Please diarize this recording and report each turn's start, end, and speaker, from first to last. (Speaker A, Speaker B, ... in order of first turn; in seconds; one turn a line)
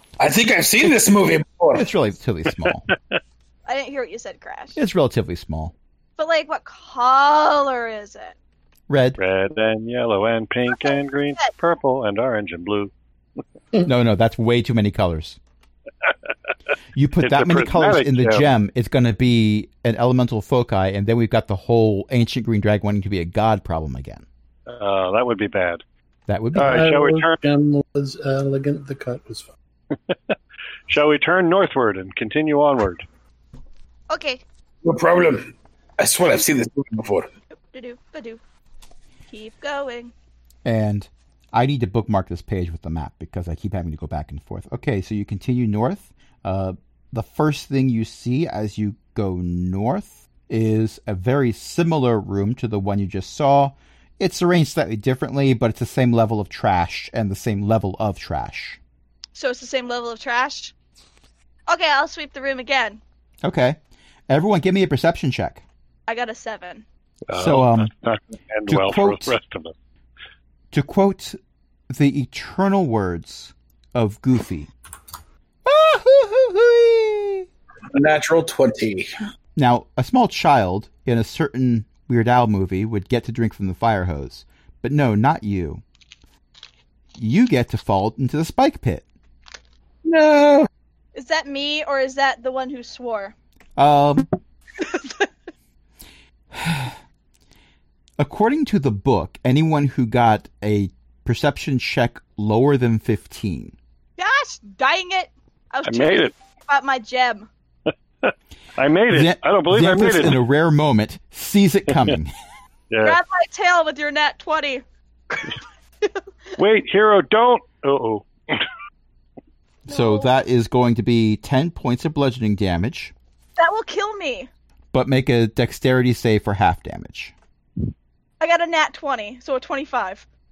Speaker A: 0.2-1.9
Speaker B: 1.7-2.9
Speaker C: 3.6-4.8
Speaker B: 4.8-5.7
Speaker C: 6.2-8.3
Speaker B: 8.9-9.2
Speaker D: 9.2-12.9
Speaker C: 10.7-11.5
Speaker B: 13.8-15.4
Speaker B: 16.9-24.2
Speaker D: 17.2-18.4
Speaker D: 24.7-25.8
Speaker B: 26.3-26.9
Speaker D: 26.5-27.4
Speaker E: 26.6-29.5
Speaker D: 30.1-30.3
Speaker D: 30.9-33.0
Speaker C: 34.1-34.4
Speaker A: 34.8-37.3
Speaker C: 37.7-38.4
Speaker C: 39.3-40.1
Speaker B: 40.6-58.8
Speaker C: 59.4-60.7
Speaker C: 61.7-63.0
Speaker B: 63.4-63.8
Speaker B: 64.3-65.6
Speaker C: 66.1-66.8
Speaker D: 67.3-69.7
Speaker B: 67.3-67.9
Speaker B: 68.7-69.3
Speaker B: 70.7-71.4
Speaker B: 71.9-74.7
Speaker B: 75.6-77.5
Speaker A: 77.9-79.1
Speaker B: 79.5-85.8
Speaker B: 87.2-89.0
Speaker A: 90.0-90.7
Speaker C: 91.1-93.3
Speaker B: 93.8-94.3
Speaker C: 94.9-95.1
Speaker B: 96.5-96.9
Speaker B: 98.2-103.7
Speaker C: 104.2-107.5
Speaker D: 105.8-106.3
Speaker D: 108.2-110.4
Speaker B: 109.1-112.3
Speaker D: 112.9-113.2
Speaker C: 113.0-116.2
Speaker D: 116.6-118.7
Speaker B: 119.8-123.1
Speaker C: 119.9-120.3
Speaker C: 123.6-124.5
Speaker B: 124.9-127.3
Speaker C: 128.4-130.2